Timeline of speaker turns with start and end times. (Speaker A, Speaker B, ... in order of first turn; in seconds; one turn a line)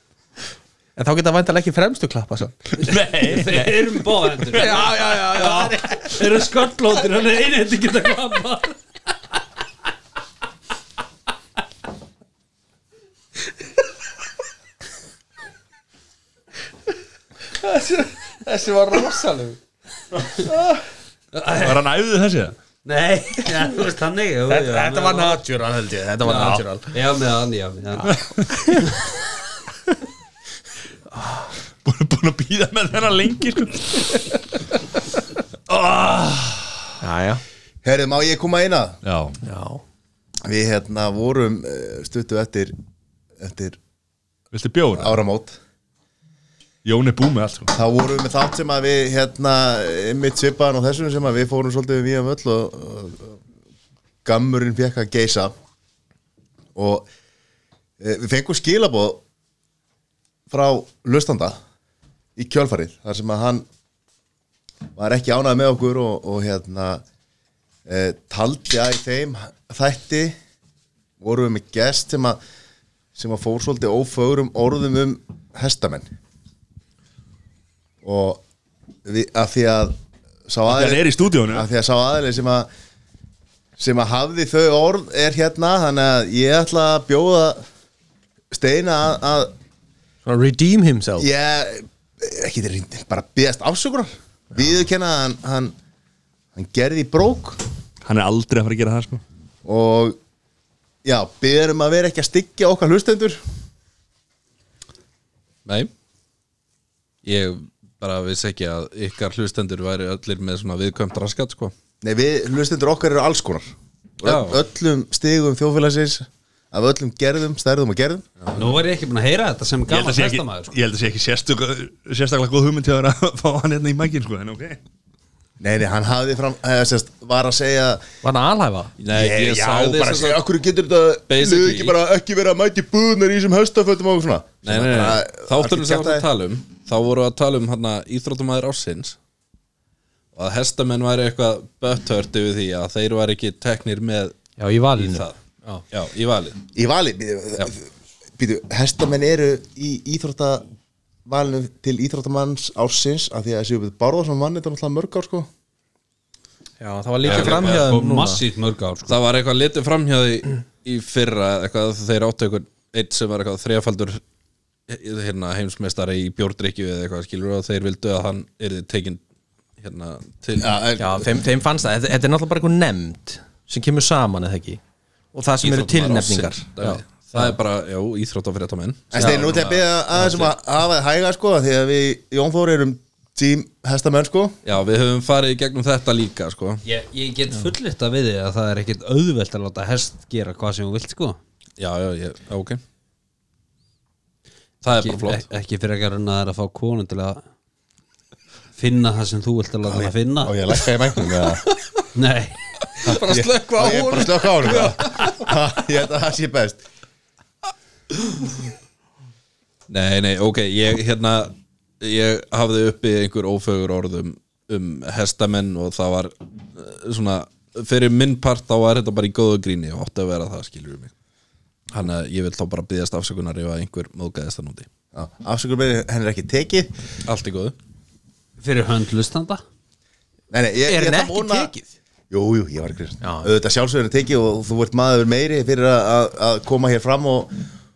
Speaker A: 0.9-2.7
Speaker B: 2.8-3.9
Speaker C: 2.8-8.8
Speaker B: 4.5-4.8
Speaker A: 4.5-6.2
Speaker A: 17.5-19.6
Speaker A: 20.5-20.8
Speaker C: 21.3-21.8
Speaker B: 21.6-22.6
Speaker C: 22.8-25.4
Speaker A: 24.5-26.9
Speaker C: 26.2-28.2
Speaker B: 28.1-28.6
Speaker C: 28.8-29.1
Speaker A: 31.1-31.5
Speaker B: 31.8-34.4
Speaker B: 35.7-36.9
Speaker A: 37.0-37.4
Speaker D: 37.8-39.0
Speaker B: 39.0-39.4
Speaker A: 39.4-39.8
Speaker D: 40.4-42.7
Speaker D: 43.4-43.8
Speaker B: 44.5-45.2
Speaker D: 44.9-45.6
Speaker B: 46.8-47.7
Speaker D: 47.7-53.4
Speaker D: 54.2-55.5
Speaker D: 56.7-57.1
Speaker D: 58.0-59.2
Speaker D: 60.5-61.6
Speaker D: 62.4-63.7
Speaker D: 64.9-67.0
Speaker D: 67.8-70.4
Speaker D: 71.2-72.4
Speaker D: 73.2-76.0
Speaker D: 78.0-78.4
Speaker D: 79.0-82.7
Speaker B: 80.7-81.7
Speaker D: 83.8-87.6
Speaker D: 88.5-89.5
Speaker A: 90.2-91.3
Speaker D: 91.2-95.7
Speaker D: 96.5-97.6
Speaker B: 98.0-99.2
Speaker D: 99.6-100.2
Speaker D: 101.0-103.4
Speaker E: 105.7-105.9
Speaker E: 107.2-111.7
Speaker D: 112.0-118.2
Speaker E: 114.2-114.6
Speaker C: 118.5-120.8
Speaker B: 119.9-124.8
Speaker D: 125.6-128.0
Speaker A: 128.2-128.9
Speaker E: 129.0-130.4
Speaker D: 129.1-136.2
Speaker E: 131.3-132.0
Speaker E: 134.6-139.2
Speaker E: 140.3-144.4
Speaker A: 144.6-145.8
Speaker E: 144.9-145.4
Speaker E: 145.9-146.6
Speaker D: 146.7-150.6
Speaker D: 151.2-155.5
Speaker A: 156.8-158.4
Speaker E: 157.2-158.0
Speaker C: 157.2-159.2
Speaker E: 159.1-164.2
Speaker E: 164.9-169.2
Speaker E: 169.8-170.8
Speaker D: 170.6-171.3
Speaker A: 171.0-174.8
Speaker A: 175.3-177.6
Speaker E: 175.6-179.8
Speaker D: 179.1-184.6
Speaker A: 179.2-179.6
Speaker A: 180.2-180.4
Speaker E: 184.6-186.8
Speaker C: 186.8-191.4
Speaker E: 191.8-192.8
Speaker E: 194.8-195.4
Speaker C: 195.0-197.4
Speaker C: 198.8-200.6
Speaker D: 199.9-201.7
Speaker C: 202.1-202.6
Speaker A: 203.0-205.6
Speaker D: 203.1-206.8
Speaker E: 209.9-221.1
Speaker E: 221.9-224.9
Speaker D: 225.1-226.9
Speaker E: 227.2-227.8
Speaker C: 228.6-229.6
Speaker D: 230.5-231.7
Speaker A: 230.8-231.9
Speaker D: 232.3-237.6
Speaker A: 233.2-233.5